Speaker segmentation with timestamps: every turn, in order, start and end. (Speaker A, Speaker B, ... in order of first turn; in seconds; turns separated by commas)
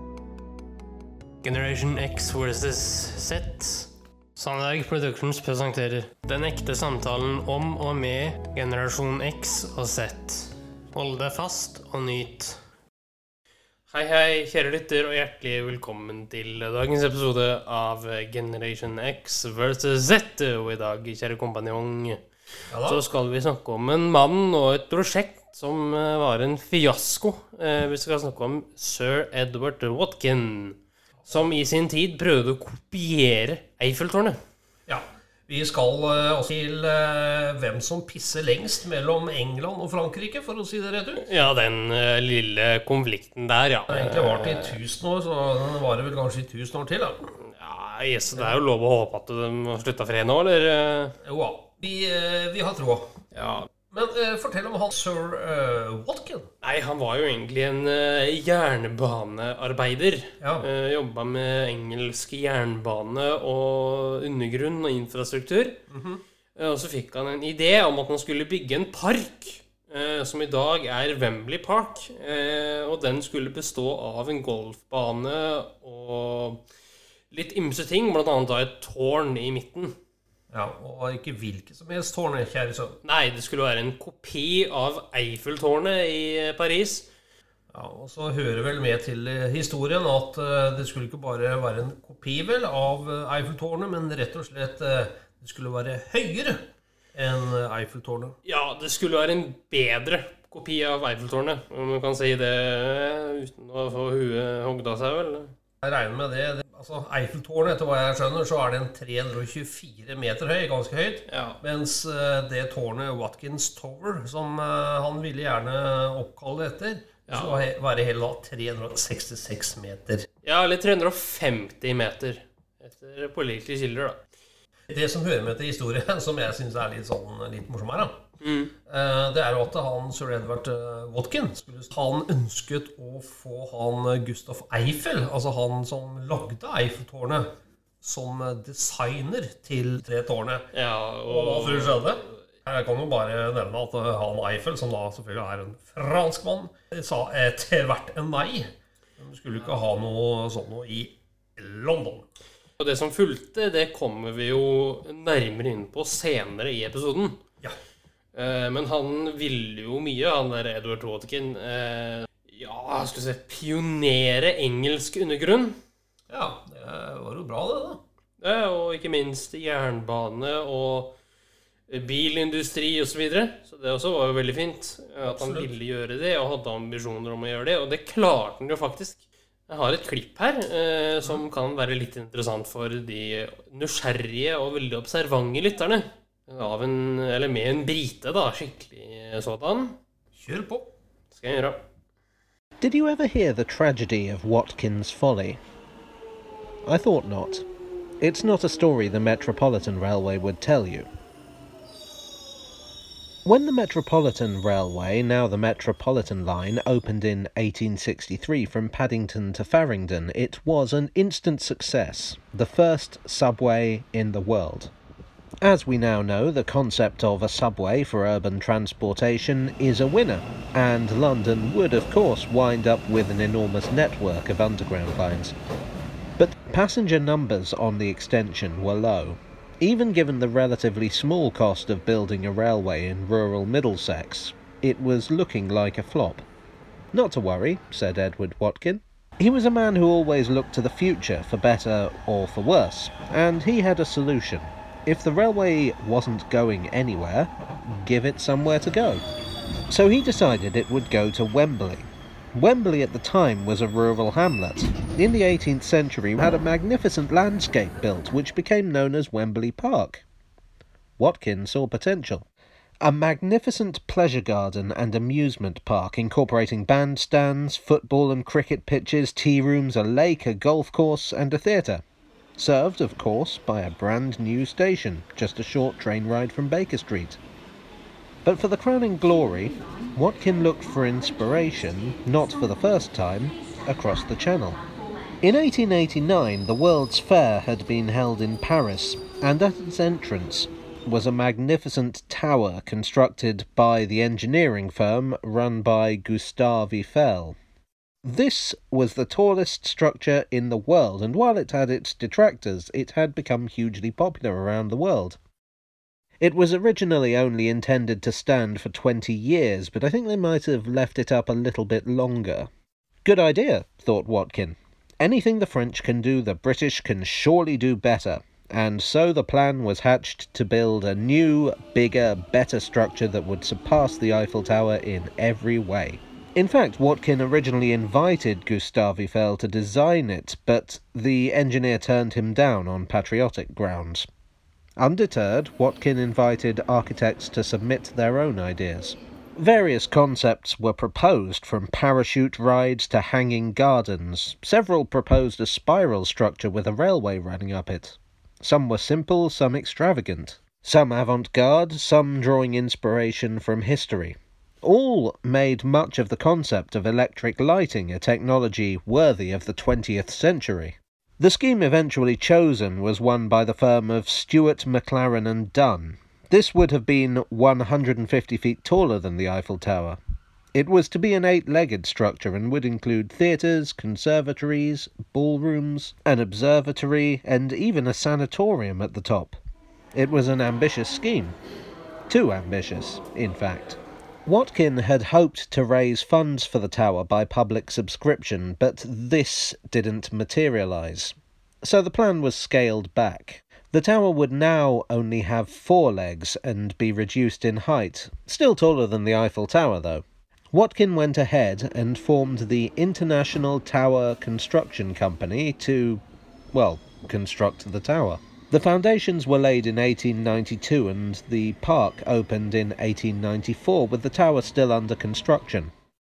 Speaker A: 1.4-12.6, Speaker A: 13.9-22.2, Speaker B: 22.7-23.1, Speaker A: 22.8-34.4, Speaker B: 34.9-41.3, Speaker A: 41.2-44.8, Speaker B: 43.9-47.3, Speaker A: 47.4-51.1, Speaker B: 51.2-53.1, Speaker A: 53.3-53.7, Speaker B: 53.9-56.5, Speaker A: 56.6-65.8, Speaker B: 60.4-60.7, Speaker B: 65.9-66.2, Speaker A: 66.5-76.7, Speaker A: 77.3-80.0, Speaker B: 80.5-83.0, Speaker A: 83.0-87.1, Speaker B: 87.7-96.6, Speaker B: 97.1-98.4, Speaker A: 98.5-105.5, Speaker B: 105.8-120.3, Speaker A: 111.3-111.6, Speaker A: 117.3-117.7, Speaker A: 120.4-124.2, Speaker B: 124.9-128.2, Speaker A: 128.4-128.7, Speaker B: 128.9-137.5, Speaker B: 138.0-140.6, Speaker A: 140.7-142.4, Speaker B: 141.3-152.3, Speaker A: 152.8-157.4, Speaker A: 158.3-165.8, Speaker B: 166.3-168.0, Speaker A: 168.4-171.2, Speaker A: 171.9-190.0, Speaker B: 175.2-175.7, Speaker B: 190.3-190.9, Speaker A: 191.3-191.8, Speaker C: 192.8-195.6, Speaker C: 196.9-197.7, Speaker C: 198.2-201.1, Speaker C: 203.4-214.9, Speaker C: 215.6-225.6, Speaker C: 226.4-236.4, Speaker C: 237.1-249.2, Speaker C: 249.9-260.2, Speaker C: 261.2-262.5, Speaker C: 263.0-272.0, Speaker C: 272.6-277.4, Speaker C: 278.4-284.8, Speaker C: 285.4-297.6, Speaker C: 298.2-305.4, Speaker C: 306.4-312.7, Speaker C: 313.2-334.3, Speaker C: 335.0-370.2, Speaker C: 370.8-379.6, Speaker C: 380.1-381.6, Speaker C: 382.3-415.9